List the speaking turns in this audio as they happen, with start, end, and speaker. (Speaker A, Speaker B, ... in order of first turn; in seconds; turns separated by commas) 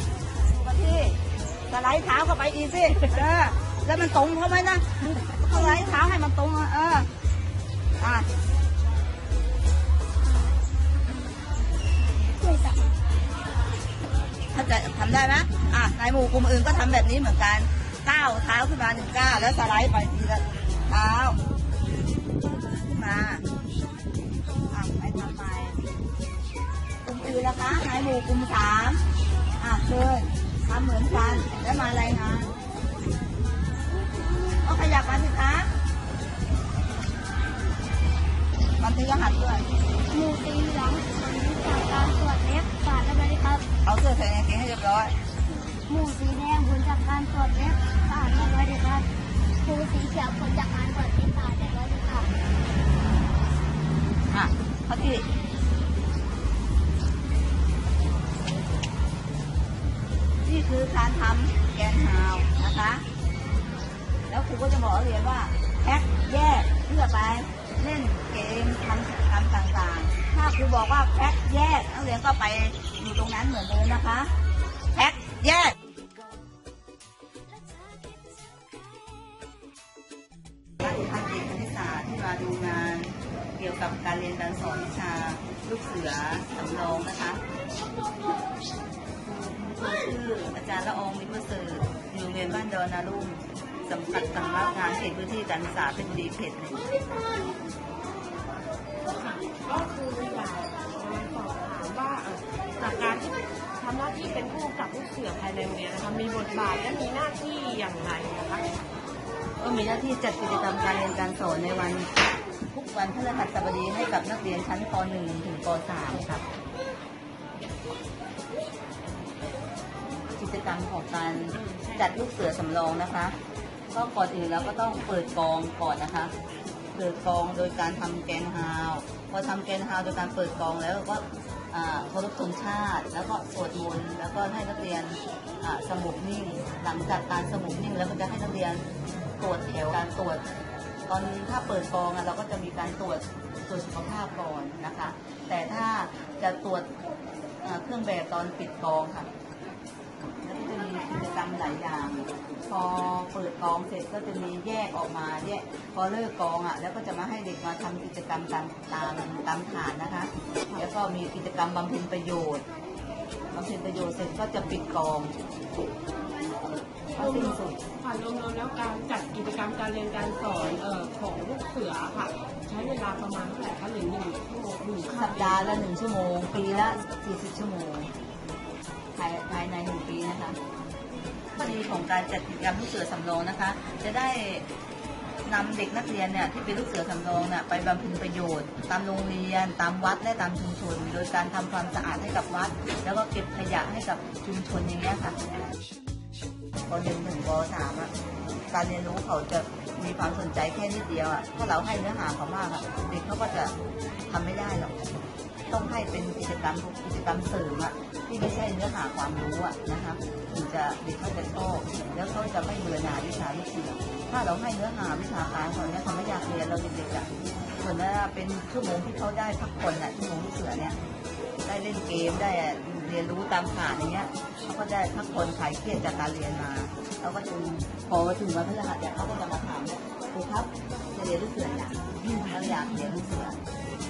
Speaker A: 0.4-7.1, Speaker A: 8.0-8.3, Speaker B: 12.4-12.9, Speaker A: 14.5-21.4, Speaker A: 22.4-23.4, Speaker A: 24.7-25.8, Speaker A: 27.0-29.0, Speaker A: 29.6-32.5, Speaker A: 34.6-35.7, Speaker A: 38.8-39.7, Speaker B: 40.1-43.6, Speaker A: 43.8-45.1, Speaker B: 45.9-49.1, Speaker B: 49.6-52.3, Speaker A: 54.3-55.2, Speaker A: 60.4-63.0, Speaker A: 64.3-74.3, Speaker A: 74.9-75.8, Speaker A: 80.8-87.4, Speaker A: 89.2-96.8, Speaker C: 99.1-108.8, Speaker A: 109.6-112.1, Speaker A: 112.7-116.4, Speaker A: 120.3-123.3, Speaker C: 121.5-122.2, Speaker A: 123.9-126.3, Speaker A: 126.9-138.8, Speaker A: 139.4-140.4, Speaker A: 141.1-146.9, Speaker A: 147.6-149.3, Speaker A: 150.4-162.6, Speaker A: 163.5-165.3, Speaker A: 167.1-167.8, Speaker C: 167.2-175.9, Speaker A: 175.1-178.1, Speaker A: 179.1-180.6, Speaker A: 181.6-184.7, Speaker A: 185.4-195.4, Speaker A: 196.9-198.1, Speaker A: 198.7-203.7, Speaker A: 204.3-204.9, Speaker A: 205.7-221.0, Speaker A: 221.6-233.6